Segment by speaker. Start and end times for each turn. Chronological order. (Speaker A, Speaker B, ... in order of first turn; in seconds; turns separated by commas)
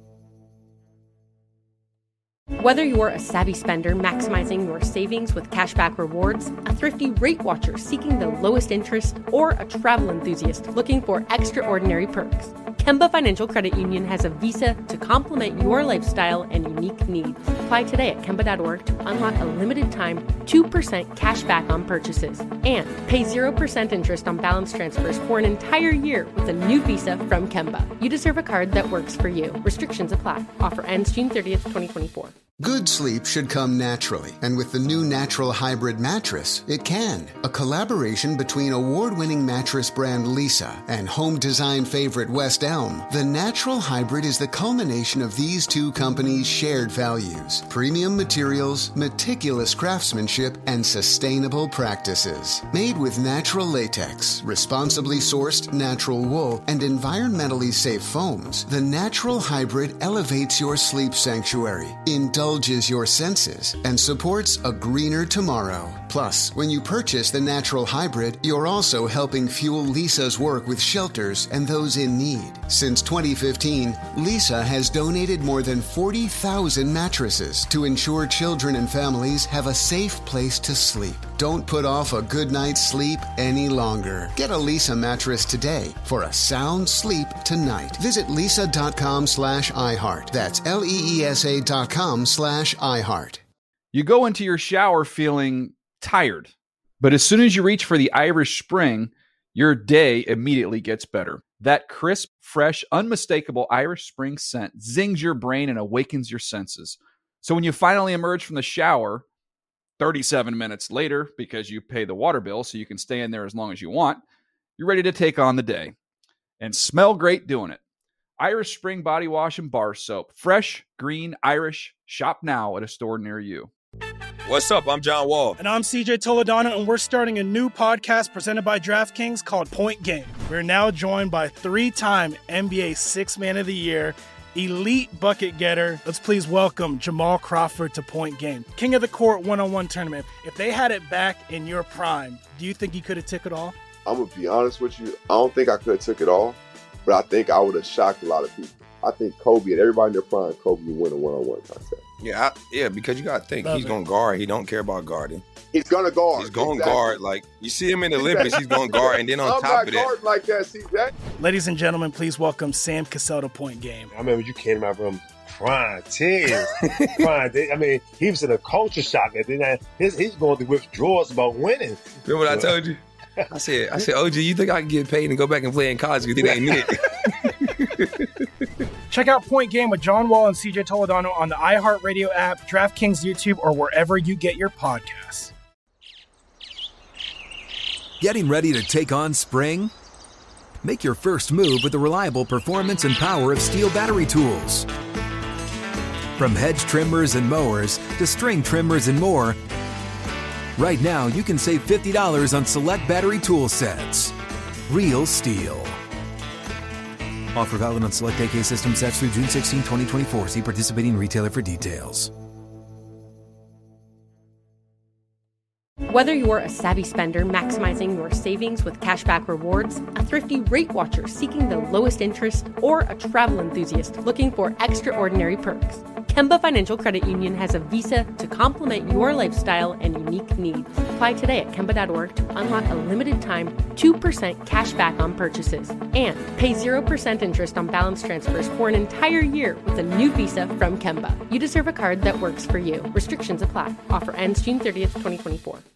Speaker A: 2.6-32.3, Speaker B: 32.6-93.4, Speaker C: 93.9-109.2, Speaker C: 110.0-114.2, Speaker C: 114.8-115.9, Speaker C: 116.6-117.8, Speaker C: 118.4-123.7, Speaker D: 124.5-125.6, Speaker E: 125.6-143.8, Speaker F: 144.1-152.0, Speaker D: 152.2-155.4, Speaker F: 155.7-157.2, Speaker D: 156.3-160.1, Speaker F: 158.1-161.1, Speaker E: 161.4-164.1, Speaker G: 164.1-172.8, Speaker D: 167.0-167.3, Speaker D: 172.2-173.0, Speaker G: 173.4-174.1, Speaker D: 173.5-178.3, Speaker G: 176.4-176.9, Speaker E: 179.1-185.5, Speaker H: 188.2-189.9, Speaker H: 190.8-194.9, Speaker H: 196.4-199.6, Speaker H: 200.8-204.3, Speaker H: 204.9-206.0, Speaker H: 207.6-212.3, Speaker A: 216.1-245.8